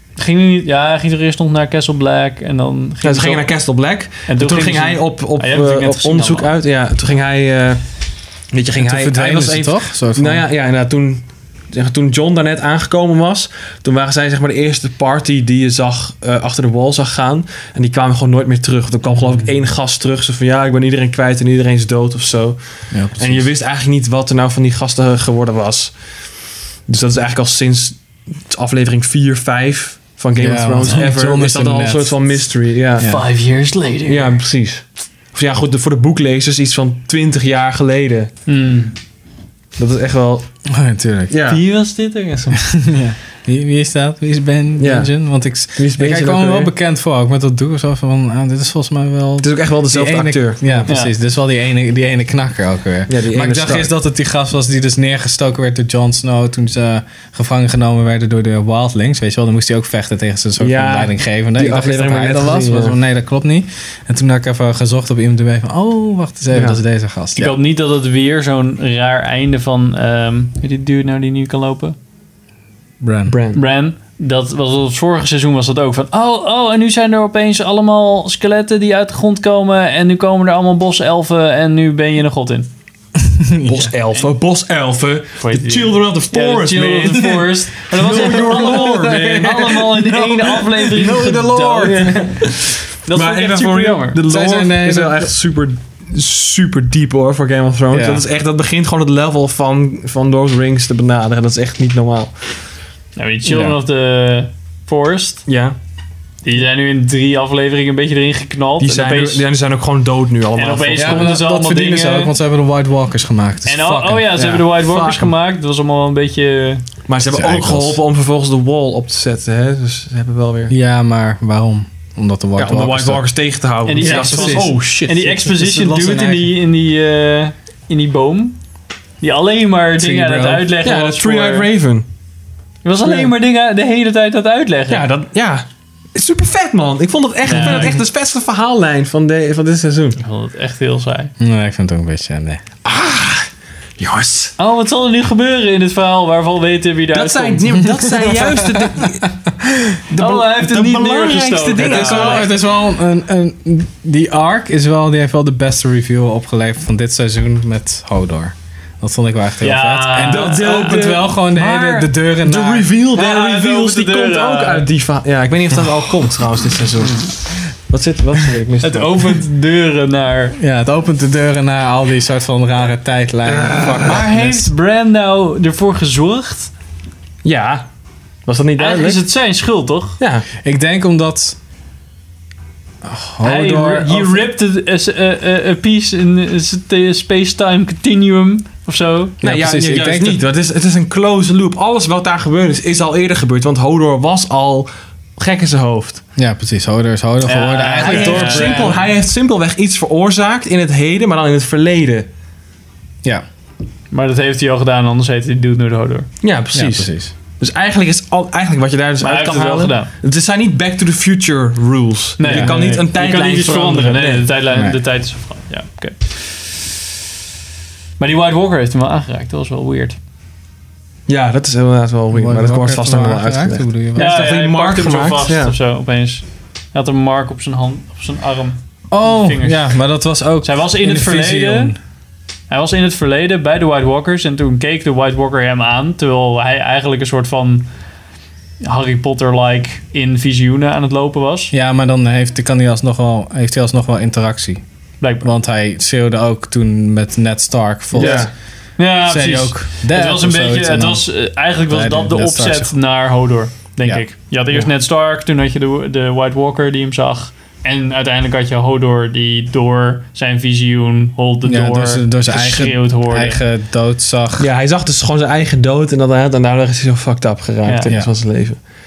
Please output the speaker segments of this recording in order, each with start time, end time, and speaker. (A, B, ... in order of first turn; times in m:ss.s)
0:00.2-0:03.5 A
0:03.0-0:26.1 B
0:04.3-0:06.5 A
0:08.8-0:10.4 C
0:19.1-0:19.5 A
0:22.9-0:23.5 C
0:26.9-0:33.2 B
0:30.4-0:32.5 C
0:33.0-0:34.4 A
0:34.1-0:38.3 B
0:38.5-0:39.0 A
0:39.8-0:40.5 B
0:40.7-0:41.3 C
0:41.3-0:41.6 B
0:41.4-0:42.8 A
0:42.7-1:07.5 C
0:44.8-0:45.1 B
0:45.8-0:46.7 B
0:49.4-0:50.9 B
0:50.9-0:51.1 A
0:53.1-0:53.9 B
1:00.6-1:03.0 B
1:06.5-1:06.8 B
1:07.4-1:12.0 A
1:13.0-1:13.3 C
1:13.3-1:13.6 B
1:13.5-1:22.7 A
1:23.4-1:23.9 C
1:23.7-1:29.9 B
1:25.4-1:34.2 A
1:28.1-1:32.3 C
1:31.8-1:42.6 B
1:34.3-1:35.3 C
1:37.9-1:38.2 C
1:43.2-1:45.5 A
1:43.5-1:43.8 C
1:45.5-1:45.8 B
1:46.4-1:49.4 A
1:48.8-1:51.3 B
1:50.6-1:52.3 A
1:51.0-1:54.5 C
1:53.7-1:56.9 A
1:54.4-1:55.3 B
1:57.1-2:00.7 B
1:57.2-1:58.0 C
2:00.7-2:03.2 C
2:02.6-2:06.4 B
2:03.8-2:08.6 A
2:04.0-2:04.7 C
2:05.8-2:06.4 C
2:09.2-2:11.7 A
2:10.0-2:10.7 C
2:10.8-2:12.0 B
2:12.8-2:15.1 A
2:13.0-2:13.3 B
2:14.9-2:20.2 B
2:17.4-2:18.0 A
2:20.2-2:21.3 A
2:21.4-2:22.6 C
2:22.8-2:24.6 B
2:24.6-2:28.0 A
2:27.1-2:29.3 B
2:30.1-2:32.5 B
2:30.2-2:32.5 A
2:31.8-2:42.9 C
2:39.6-2:42.0 A
2:40.2-2:49.4 B
2:43.1-2:44.9 A
2:48.8-2:50.6 A
2:50.6-2:54.7 C
2:53.5-2:54.3 B
2:54.0-2:56.7 A
2:57.4-2:57.9 B
2:58.5-2:59.2 B
2:58.8-3:00.2 A
3:00.2-3:00.5 B
3:00.6-3:01.6 C
3:03.0-3:03.9 C
3:03.4-3:09.4 A
3:03.5-3:04.4 B
3:09.4-3:10.4 C
3:09.4-3:16.2 B
3:16.4-3:19.0 C
3:17.4-3:19.0 A
3:18.0-3:22.3 B
3:24.1-3:26.3 A
3:26.4-3:34.5 B
3:26.7-3:27.3 C
3:29.2-3:30.1 A
3:32.4-3:36.9 A
3:32.5-3:33.0 C
3:34.7-3:35.0 C
3:38.2-3:40.2 A
3:41.3-3:45.8 B
3:42.3-3:44.4 C
3:44.2-3:50.1 A
3:49.1-3:52.0 C
3:50.6-3:52.0 A
3:52.7-3:57.9 A
3:58.8-4:01.7 A
4:01.7-4:04.8 C
4:05.2-4:05.5 A
4:05.4-4:08.5 C
4:08.1-4:08.5 B
4:08.2-4:23.6 A
4:09.2-4:13.0 C
4:21.6-4:24.7 C
4:24.6-4:28.8 B
4:27.8-4:28.1 A